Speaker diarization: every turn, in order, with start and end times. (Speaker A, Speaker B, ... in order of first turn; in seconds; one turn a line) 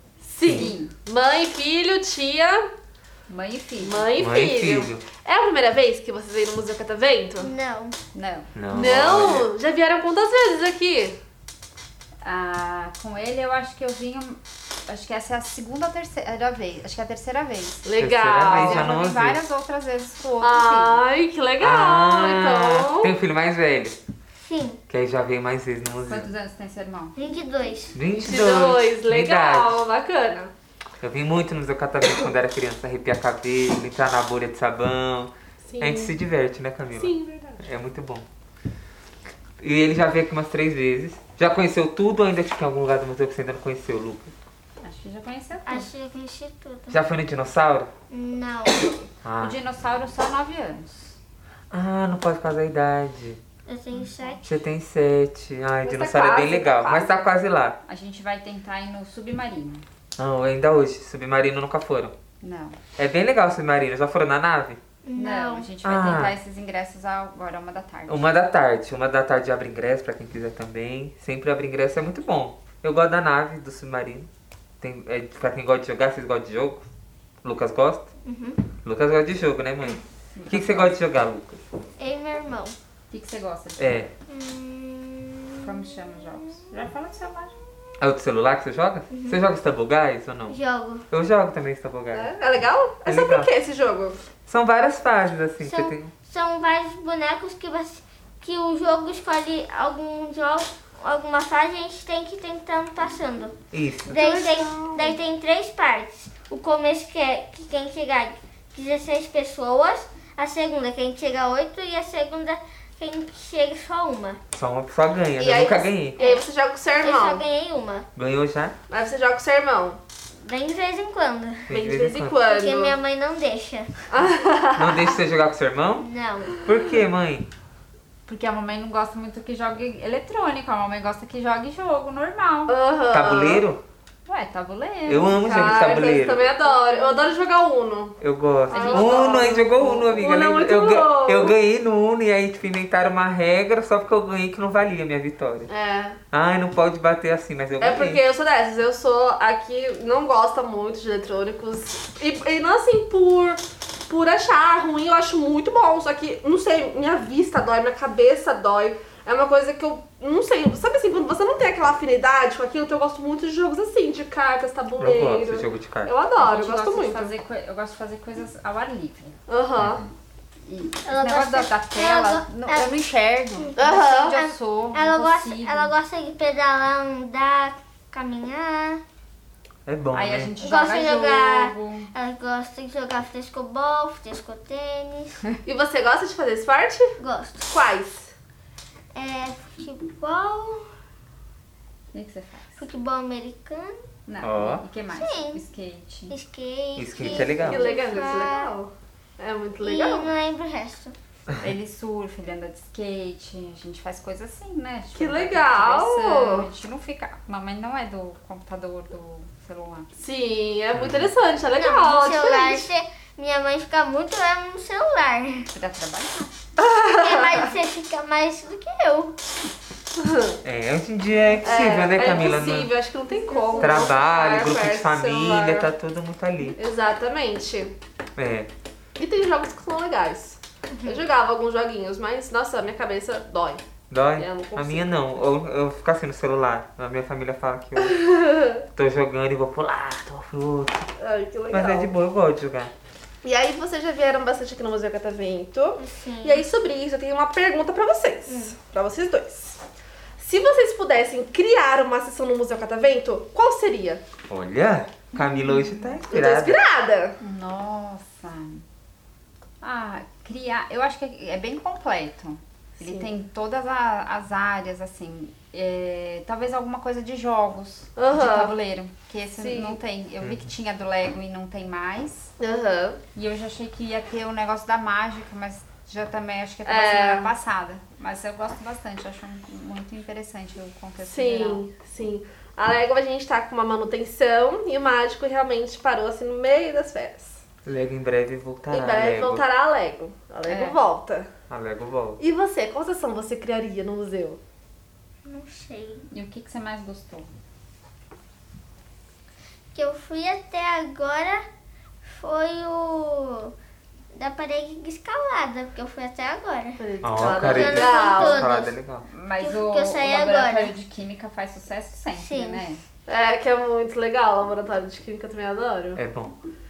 Speaker A: 0.2-2.6
Speaker B: 0.5-0.7
Speaker C: 0.5-0.9
Speaker C: 3.3-4.1
Speaker A: 3.8-7.5
Speaker B: 4.2-5.0
Speaker D: 7.4-8.0
Speaker C: 8.1-8.5
Speaker B: 8.6-9.5
Speaker A: 8.7-11.2
Speaker C: 12.2-17.9
Speaker A: 17.8-18.9
Speaker B: 18.0-19.4
Speaker C: 18.4-21.0
Speaker A: 20.4-23.1
Speaker B: 21.6-24.0
Speaker D: 24.4-24.8
Speaker B: 24.9-26.3
Speaker C: 26.1-27.2
Speaker D: 27.1-28.0
Speaker B: 27.9-29.8
Speaker A: 28.2-30.5
Speaker B: 31.0-38.3
Speaker A: 35.7-36.1
Speaker A: 36.9-37.6
Speaker B: 39.6-44.3
Speaker C: 44.8-45.9
Speaker D: 45.6-47.0
Speaker B: 46.9-47.9
Speaker D: 48.1-49.0
Speaker B: 49.2-49.6
Speaker C: 49.4-51.2
Speaker B: 51.7-53.4
Speaker D: 53.6-54.4
Speaker C: 53.9-54.4
Speaker B: 54.5-57.8
Speaker A: 55.8-57.2
Speaker C: 57.8-59.9
Speaker B: 60.2-62.1
Speaker C: 62.4-62.8
Speaker B: 63.0-64.8
Speaker D: 65.0-65.7
Speaker C: 65.2-68.3
Speaker B: 65.8-66.4
Speaker B: 68.1-74.3
Speaker B: 74.8-76.8
Speaker B: 77.4-78.1
Speaker D: 78.2-78.6
Speaker B: 78.8-81.6
Speaker C: 80.3-81.0
Speaker D: 82.0-82.8
Speaker C: 83.1-84.1
Speaker B: 83.8-84.1
Speaker D: 84.3-86.0
Speaker C: 85.6-87.5
Speaker B: 88.0-90.6
Speaker D: 89.1-89.4
Speaker D: 90.5-91.0
Speaker B: 91.1-92.3
Speaker A: 92.1-94.2
Speaker B: 93.0-93.5
Speaker B: 94.5-96.1
Speaker D: 95.6-103.5
Speaker B: 103.7-104.2
Speaker D: 104.1-114.4
Speaker A: 104.1-105.2
Speaker B: 114.5-116.2
Speaker A: 115.4-117.4
Speaker D: 116.2-116.5
Speaker D: 117.0-118.1
Speaker B: 118.2-118.8
Speaker A: 118.9-120.0
Speaker D: 120.4-121.7
Speaker B: 121.7-122.4
Speaker A: 121.7-123.0
Speaker D: 122.5-124.0
Speaker A: 124.1-125.2
Speaker B: 124.8-126.1
Speaker D: 126.0-126.5
Speaker B: 126.6-127.5
Speaker C: 128.3-132.8
Speaker A: 132.7-133.6
Speaker B: 133.1-133.8
Speaker C: 134.2-135.7
Speaker B: 135.1-136.4
Speaker A: 135.3-138.2
Speaker B: 138.2-145.7
Speaker C: 138.7-139.3
Speaker A: 138.7-141.6
Speaker A: 145.7-146.2
Speaker B: 146.3-148.2
Speaker A: 147.8-167.3
Speaker B: 165.0-166.1
Speaker C: 166.4-169.4
Speaker A: 169.5-170.0
Speaker C: 170.6-175.9
Speaker D: 171.0-172.9
Speaker A: 173.8-174.4
Speaker D: 174.3-179.0
Speaker B: 179.9-180.5
Speaker C: 180.1-182.1
Speaker D: 180.6-185.4
Speaker A: 185.7-187.2
Speaker D: 187.2-187.7
Speaker A: 187.7-188.3
Speaker D: 189.1-190.9
Speaker C: 192.1-192.9
Speaker D: 192.8-194.0
Speaker C: 194.2-196.4
Speaker B: 194.4-194.8
Speaker D: 195.1-195.6
Speaker D: 196.3-198.7
Speaker B: 197.0-197.8
Speaker A: 197.5-200.3
Speaker D: 199.8-201.2
Speaker C: 201.6-210.1
Speaker A: 205.2-206.7
Speaker A: 210.2-212.9
Speaker B: 210.9-211.3
Speaker D: 211.7-215.7
Speaker C: 215.7-216.5
Speaker A: 216.8-217.7
Speaker D: 217.2-219.3
Speaker A: 220.2-220.6
Speaker B: 220.6-222.9
Speaker A: 221.6-225.9
Speaker C: 223.4-224.1
Speaker B: 223.8-226.8
Speaker A: 226.8-227.9
Speaker B: 228.4-228.7
Speaker A: 229.2-233.8
Speaker D: 230.9-231.2
Speaker B: 234.1-238.2
Speaker A: 234.4-235.1
Speaker A: 238.1-238.8
Speaker B: 238.9-241.1
Speaker A: 241.2-242.1
Speaker B: 241.7-242.9
Speaker A: 243.4-249.8
Speaker D: 246.0-246.6
Speaker D: 248.5-248.8
Speaker A: 250.4-254.2
Speaker B: 254.5-256.8
Speaker C: 255.3-256.2
Speaker A: 256.3-257.4
Speaker C: 257.4-258.9
Speaker C: 259.8-272.5
Speaker A: 263.0-263.3
Speaker A: 268.1-268.8
Speaker A: 269.6-270.0
Speaker A: 272.6-273.2
Speaker C: 273.3-281.8
Speaker A: 276.8-277.5
Speaker A: 281.2-287.6
Speaker B: 287.8-289.6
Speaker A: 288.9-291.5
Speaker C: 290.6-291.0
Speaker B: 291.7-292.4
Speaker A: 292.4-294.6
Speaker D: 295.4-296.3
Speaker C: 296.3-297.5
Speaker D: 299.9-301.6
Speaker D: 302.2-303.7
Speaker D: 304.3-308.9
Speaker A: 307.0-308.6
Speaker B: 307.2-309.2
Speaker C: 309.2-313.0
Speaker D: 309.6-310.9
Speaker D: 312.3-312.9
Speaker A: 313.3-316.2
Speaker B: 316.1-316.5